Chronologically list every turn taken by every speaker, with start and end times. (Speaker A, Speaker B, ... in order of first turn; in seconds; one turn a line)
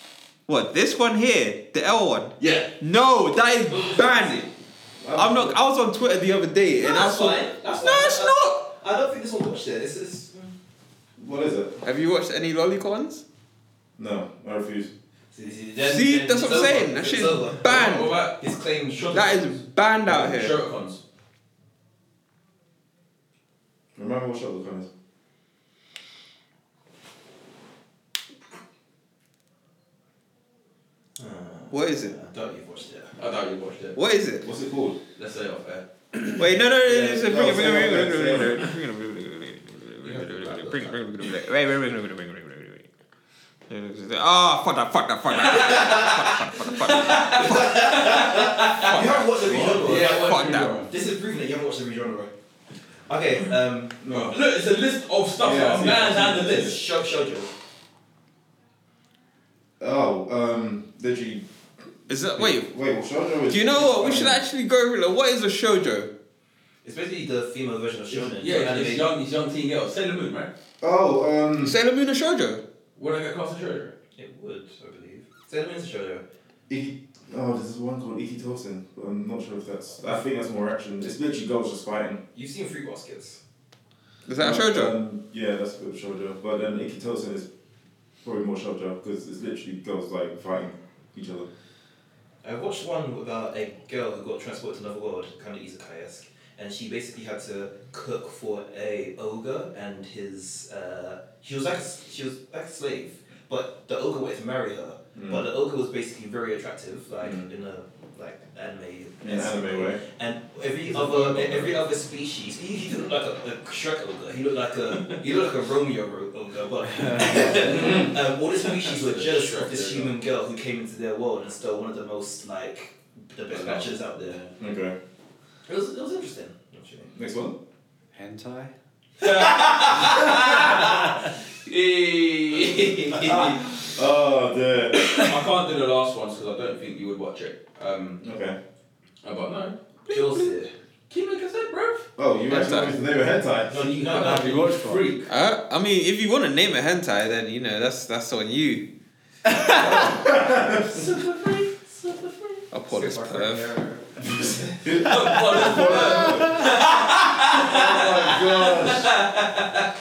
Speaker A: 0.5-4.5
Speaker B: 2.4-2.6
Speaker C: 3.7-4.5
Speaker D: 5.0-5.5
Speaker A: 5.1-8.6
Speaker C: 6.8-10.5
Speaker D: 11.2-11.8
Speaker A: 11.8-13.2
Speaker D: 14.0-14.9
Speaker C: 15.3-19.3
Speaker A: 15.8-18.1
Speaker B: 17.6-21.0
Speaker A: 19.1-20.5
Speaker D: 23.9-24.9
Speaker C: 31.2-33.1
Speaker A: 31.7-32.1
Speaker B: 33.2-34.0
Speaker A: 34.0-34.5
Speaker D: 34.4-35.0
Speaker B: 35.1-36.2
Speaker A: 36.3-42.9
Speaker D: 36.8-38.7
Speaker C: 40.0-41.0
Speaker A: 43.7-48.0
Speaker B: 45.5-45.8
Speaker C: 45.5-52.3
Speaker B: 46.9-50.9
Speaker A: 48.8-50.8
Speaker C: 53.1-54.0
Speaker D: 54.0-54.4
Speaker B: 54.1-56.7
Speaker D: 55.4-56.7
Speaker C: 56.4-57.5
Speaker D: 59.8-61.4
Speaker A: 62.1-62.7
Speaker D: 62.3-64.4
Speaker A: 63.5-66.1
Speaker C: 66.8-69.0
Speaker B: 68.3-70.5
Speaker D: 70.8-71.8
Speaker A: 71.6-72.6
Speaker B: 73.0-73.9
Speaker C: 74.2-76.2
Speaker D: 76.7-82.2
Speaker C: 82.3-83.4
Speaker A: 84.2-85.0
Speaker D: 84.4-87.5
Speaker D: 88.2-91.5
Speaker C: 92.4-124.4
Speaker D: 105.1-105.4
Speaker D: 107.2-107.5
Speaker D: 109.2-110.0
Speaker B: 110.9-111.8
Speaker E: 117.0-117.6
Speaker B: 117.4-120.1
Speaker B: 123.5-124.5
Speaker D: 124.6-125.0
Speaker C: 125.7-127.1
Speaker D: 127.1-127.5
Speaker E: 128.1-128.7
Speaker B: 129.2-133.7
Speaker C: 129.2-130.6
Speaker C: 133.1-133.6
Speaker D: 133.2-135.1
Speaker B: 135.0-138.2
Speaker D: 138.2-138.6
Speaker B: 139.2-139.8
Speaker A: 140.1-140.5
Speaker C: 140.1-140.7
Speaker B: 141.1-142.1
Speaker D: 142.2-143.7
Speaker A: 142.4-142.9
Speaker C: 143.7-144.7
Speaker B: 143.7-145.3
Speaker E: 144.1-145.1
Speaker A: 145.3-148.9
Speaker A: 149.5-150.2
Speaker D: 149.7-150.9
Speaker B: 150.9-152.6
Speaker A: 152.7-153.7
Speaker C: 152.9-154.8
Speaker D: 154.2-156.7
Speaker B: 154.9-159.8
Speaker D: 157.4-159.1